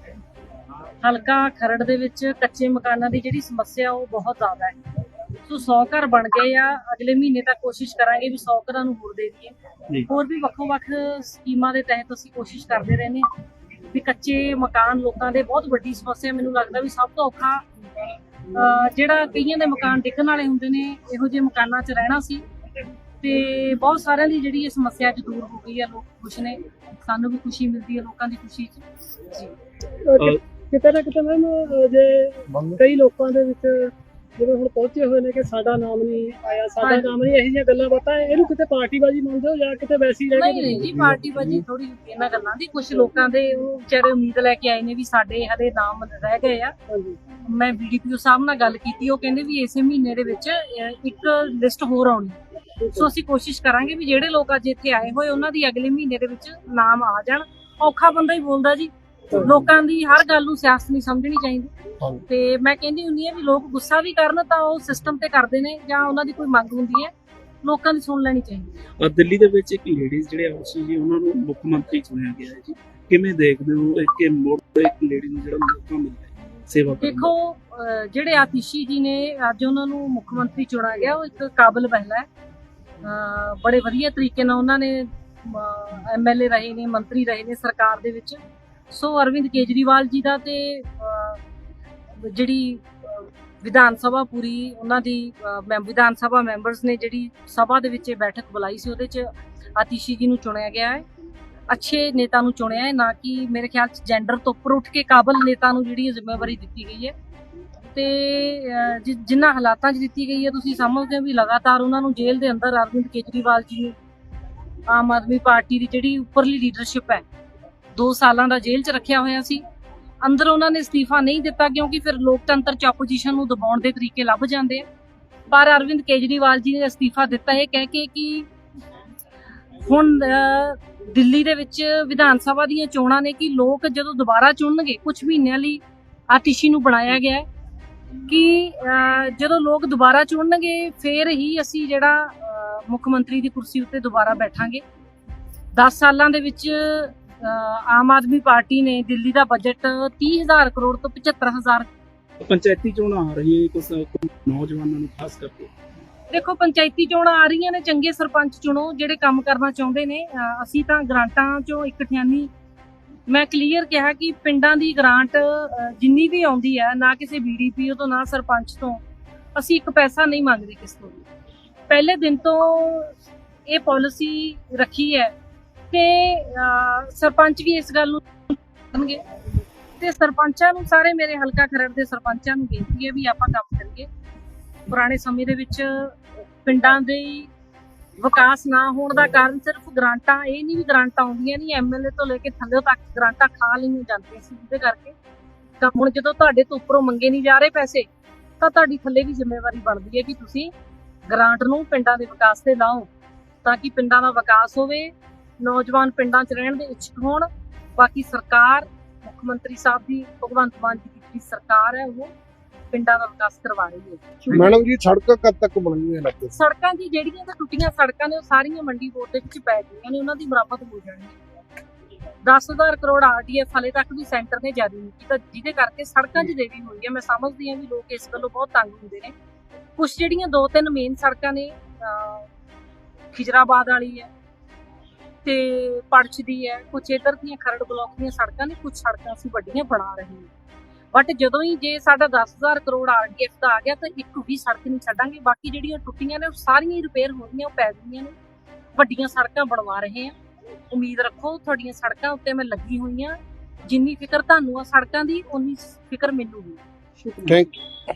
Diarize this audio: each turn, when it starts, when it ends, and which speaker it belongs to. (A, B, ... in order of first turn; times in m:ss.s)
0:01.0-0:04.8 A
0:05.5-0:09.5 A
0:10.1-0:13.3 A
0:13.9-0:17.6 A
0:18.5-0:22.4 A
0:23.2-0:29.5 A
0:30.0-0:40.9 B
0:32.5-0:32.8 C
0:36.8-0:37.1 A
0:40.3-0:46.7 A
0:40.8-0:41.6 C
0:46.9-0:47.2 B
0:47.4-0:52.4 A
0:52.8-0:53.1 B
0:53.0-1:01.7 A
1:02.3-1:07.1 A
1:07.6-1:08.7 A
1:09.0-1:17.3 D
1:17.0-1:22.3 A
1:23.0-1:28.4 A
1:28.9-1:31.4 A
1:32.2-1:41.0 A
1:41.7-1:47.1 A
1:47.9-1:54.0 A
1:54.9-1:57.2 A
1:58.0-1:59.6 A
2:00.2-2:04.8 A
2:05.5-2:08.5 A
2:09.8-2:17.5 A
2:18.3-2:24.8 A
2:25.8-2:31.9 A
2:32.4-2:35.7 D
2:36.3-2:42.5 A
2:43.3-2:49.0 A
2:49.6-2:51.2 A
2:51.9-2:53.2 A
2:53.7-2:55.3 A
2:55.9-2:59.2 A
3:00.0-3:04.1 A
3:04.9-3:07.5 A
3:08.2-3:15.2 A
3:15.8-3:18.1 A
3:18.6-3:20.7 A
3:21.3-3:23.1 A
3:23.6-3:32.3 A
3:32.9-3:34.2 A
3:34.5-3:36.6 C
3:36.6-3:41.4 A
3:42.4-3:49.3 A
3:50.0-3:52.5 A
3:53.3-3:54.3 A
3:55.4-4:00.5 A
4:01.1-4:08.4 A
4:09.0-4:10.3 A
4:10.9-4:16.8 A
4:17.2-4:17.6 B
4:17.5-4:17.8 C